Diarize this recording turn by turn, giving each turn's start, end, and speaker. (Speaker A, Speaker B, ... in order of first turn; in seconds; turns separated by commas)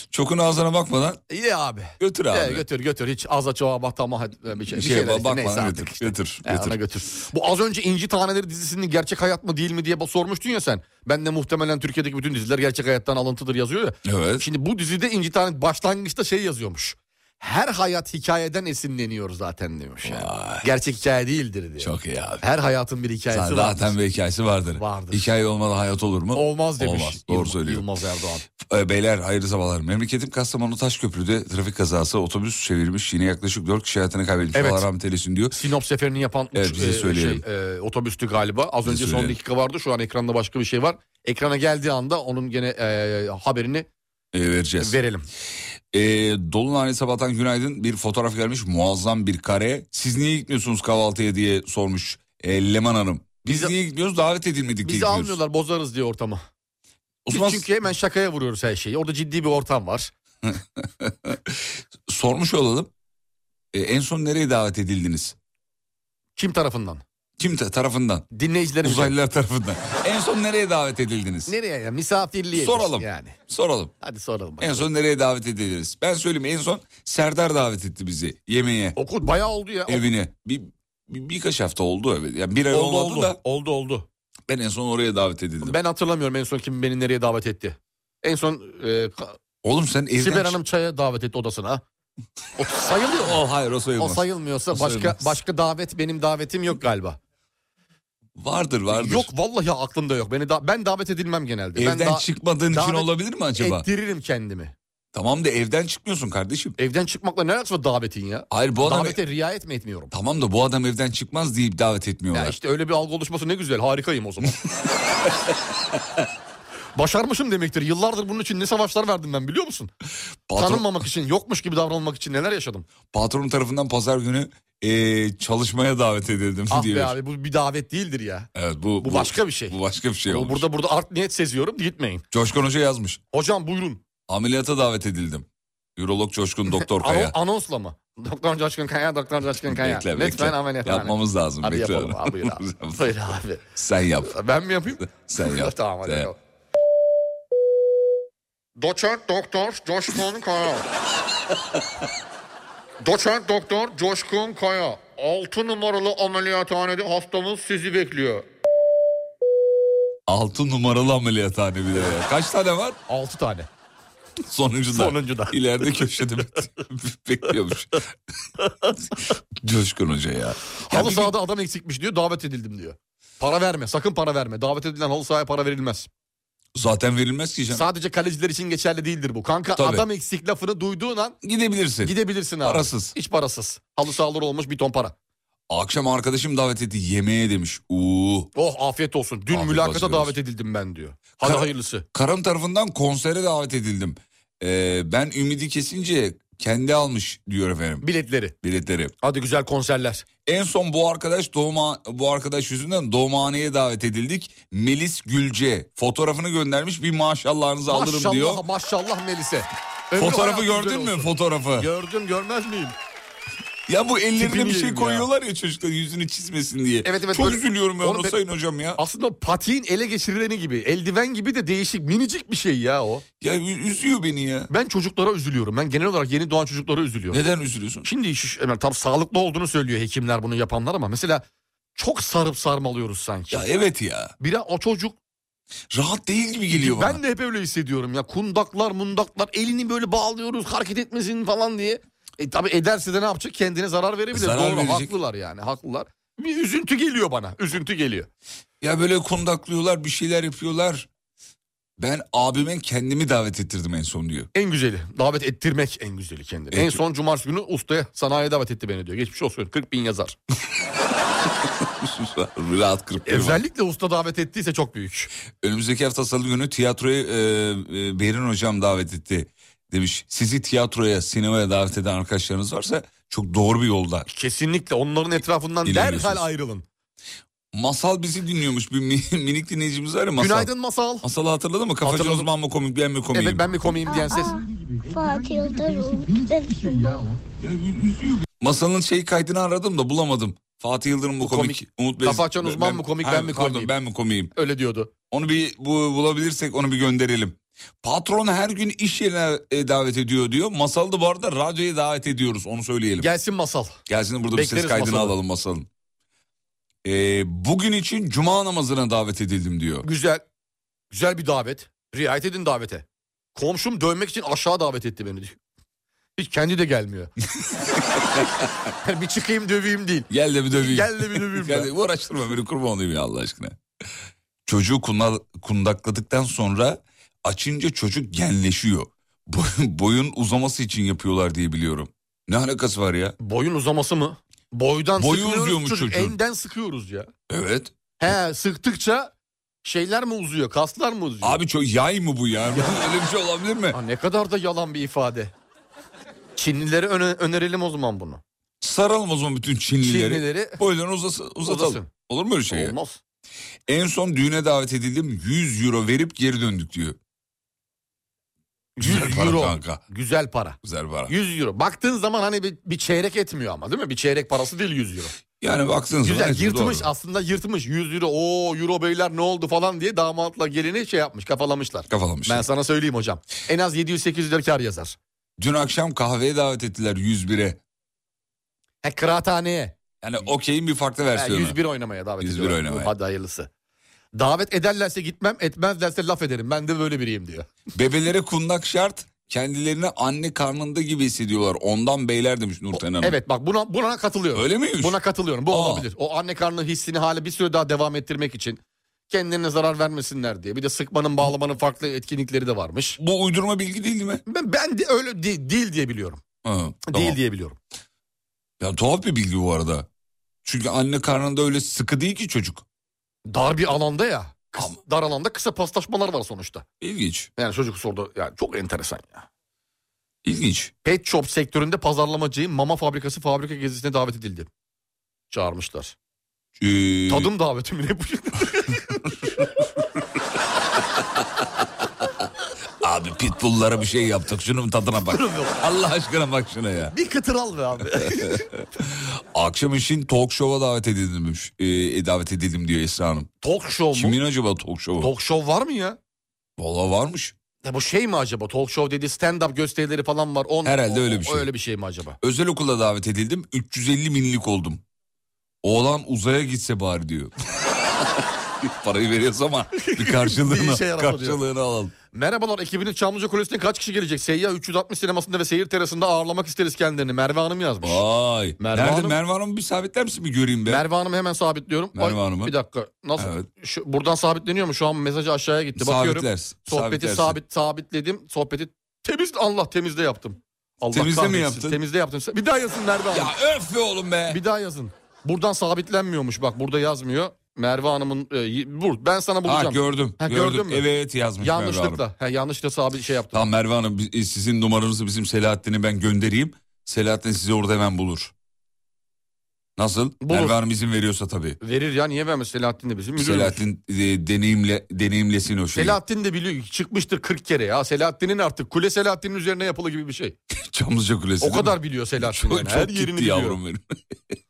Speaker A: 0.1-1.2, Speaker B: 1.3-23.9, Speaker A: 2.0-2.6, Speaker A: 4.7-6.8, Speaker A: 14.1-14.5, Speaker A: 20.0-20.7, Speaker A: 21.8-22.4, Speaker A: 23.3-27.9, Speaker B: 24.8-25.2, Speaker B: 26.3-28.5, Speaker A: 28.6-35.6, Speaker B: 34.5-34.9, Speaker B: 35.5-43.9, Speaker A: 36.5-37.4, Speaker A: 38.9-39.4, Speaker A: 44.3-45.0, Speaker B: 44.8-45.3, Speaker A: 45.9-55.4, Speaker B: 53.5-53.8, Speaker B: 54.8-56.4, Speaker A: 57.2-57.7, Speaker B: 57.3-60.1, Speaker A: 60.5-62.9, Speaker A: 63.7-65.4, Speaker B: 66.4-67.0, Speaker A: 67.4-68.3, Speaker B: 68.3-69.1, Speaker A: 68.8-71.5, Speaker B: 71.5-73.4, Speaker A: 72.5-73.9, Speaker B: 74.0-74.9, Speaker A: 74.6-79.0, Speaker B: 79.0-80.1, Speaker A: 79.9-83.4, Speaker B: 82.7-84.1, Speaker A: 84.5-85.8, Speaker B: 85.6-89.4, Speaker A: 89.6-90.6, Speaker B: 90.2-91.8, Speaker B: 92.6-93.4, Speaker A: 93.2-95.4, Speaker B: 94.0-97.2, Speaker A: 98.4-99.3, Speaker B: 98.9-104.8, Speaker A: 101.8-103.9, Speaker A: 105.1-106.8, Speaker B: 106.8-110.1, Speaker A: 108.5-109.2, Speaker A: 110.1-112.6, Speaker B: 112.3-114.6, Speaker B: 117.0-119.9, Speaker A: 120.5-120.9, Speaker B: 120.6-122.9, Speaker A: 123.1-127.2, Speaker B: 126.7-128.5, Speaker A: 128.6-130.7, Speaker B: 129.0-132.2, Speaker A: 132.3-133.2, Speaker B: 133.3-134.0, Speaker A: 134.3-137.4, Speaker B: 136.7-143.6, Speaker A: 139.7-143.2, Speaker A: 143.8-144.4, Speaker B: 144.2-146.4, Speaker A: 145.0-146.3, Speaker B: 148.8-150.9, Speaker B: 153.0-158.4, Speaker A: 160.3-163.0, Speaker B: 163.1-163.7, Speaker A: 164.5-168.1, Speaker B: 164.9-165.8, Speaker A: 169.6-171.3, Speaker B: 170.9-176.1, Speaker A: 176.8-177.8, Speaker B: 177.7-181.4, Speaker A: 179.8-180.1, Speaker A: 181.4-183.1, Speaker B: 182.0-185.1, Speaker A: 185.7-188.5, Speaker B: 188.6-192.1, Speaker A: 189.5-190.4, Speaker A: 191.4-198.1, Speaker B: 198.0-198.5, Speaker A: 198.6-199.1, Speaker B: 199.2-200.2, Speaker A: 200.5-208.6, Speaker B: 207.9-212.9, Speaker A: 210.2-211.9, Speaker A: 213.9-219.0, Speaker B: 214.4-215.3, Speaker B: 217.1-218.4, Speaker B: 219.0-223.2, Speaker A: 223.4-224.7, Speaker B: 224.7-227.4, Speaker A: 227.3-228.1, Speaker B: 228.0-231.4, Speaker B: 232.0-233.7, Speaker A: 233.5-234.3, Speaker B: 234.4-235.2, Speaker A: 235.9-237.2, Speaker B: 236.7-248.3, Speaker A: 244.3-245.2, Speaker A: 248.8-251.1, Speaker A: 252.0-254.5, Speaker B: 254.5-260.4, Speaker A: 256.7-257.0, Speaker A: 261.7-263.6, Speaker B: 263.3-265.3, Speaker A: 265.6-274.3, Speaker B: 274.3-276.8, Speaker A: 275.9-276.4, Speaker A: 277.7-280.7, Speaker B: 280.4-281.2, Speaker A: 281.2-283.8, Speaker B: 282.0-282.5, Speaker B: 283.3-284.6, Speaker C: 284.1-287.2, Speaker A: 287.6-294.5, Speaker B: 291.4-293.9, Speaker B: 294.6-295.1, Speaker A: 295.3-303.3, Speaker B: 303.2-304.0, Speaker A: 304.1-305.9, Speaker B: 304.5-305.4, Speaker A: 307.0-310.1, Speaker B: 310.0-310.4, Speaker B: 311.1-315.6, Speaker B: 316.4-317.3, Speaker A: 318.2-318.7, Speaker B: 319.0-321.9, Speaker A: 320.3-323.8, Speaker A: 324.7-333.4, Speaker B: 333.4-337.3, Speaker A: 335.2-336.4, Speaker A: 337.5-337.9, Speaker B: 338.2-339.3, Speaker B: 339.8-341.6, Speaker A: 341.4-344.0, Speaker B: 342.7-343.0, Speaker B: 343.9-345.5, Speaker B: 346.6-348.4, Speaker A: 348.8-352.9, Speaker B: 350.0-350.8, Speaker B: 351.6-352.1, Speaker B: 352.7-353.2, Speaker A: 353.9-357.2, Speaker B: 359.0-365.4, Speaker A: 359.0-360.0, Speaker A: 360.8-361.3, Speaker A: 365.6-367.1, Speaker B: 366.2-375.2, Speaker A: 372.1-372.6, Speaker A: 375.6-377.8, Speaker B: 379.0-379.9, Speaker A: 380.2-381.8, Speaker B: 381.4-383.7, Speaker A: 382.4-383.1, Speaker B: 384.4-387.7, Speaker A: 387.9-393.4, Speaker B: 392.9-403.2, Speaker A: 394.6-396.1, Speaker A: 403.2-404.4, Speaker B: 404.5-406.4, Speaker A: 406.6-407.4, Speaker B: 407.1-407.8, Speaker A: 408.8-410.1, Speaker A: 410.6-412.9, Speaker B: 413.5-416.9, Speaker A: 417.0-417.5, Speaker B: 417.6-419.5, Speaker A: 420.4-420.9, Speaker B: 421.0-424.7, Speaker B: 425.5-426.1, Speaker A: 426.8-427.5, Speaker B: 427.3-429.2, Speaker A: 433.0-437.1, Speaker B: 435.3-435.7, Speaker B: 437.1-438.7, Speaker A: 438.1-443.5, Speaker B: 443.6-444.4, Speaker A: 444.1-445.3, Speaker B: 445.2-446.2, Speaker A: 446.8-447.6, Speaker B: 447.8-452.4, Speaker A: 450.9-451.7, Speaker A: 452.4-455.0, Speaker A: 455.8-462.1, Speaker B: 460.0-461.6, Speaker B: 462.3-468.2, Speaker A: 468.0-471.1, Speaker B: 468.8-469.4, Speaker B: 470.9-483.6, Speaker A: 472.1-472.7, Speaker A: 473.4-473.7, Speaker A: 476.0-477.6, Speaker A: 481.1-482.0, Speaker A: 483.3-484.6, Speaker B: 484.5-491.1, Speaker A: 489.6-492.2, Speaker B: 491.6-493.6, Speaker A: 493.5-498.5, Speaker A: 500.0-501.8, Speaker B: 500.4-500.8, Speaker B: 501.8-503.8, Speaker A: 503.4-506.2, Speaker B: 505.9-510.6, Speaker A: 510.9-514.5, Speaker B: 511.6-513.8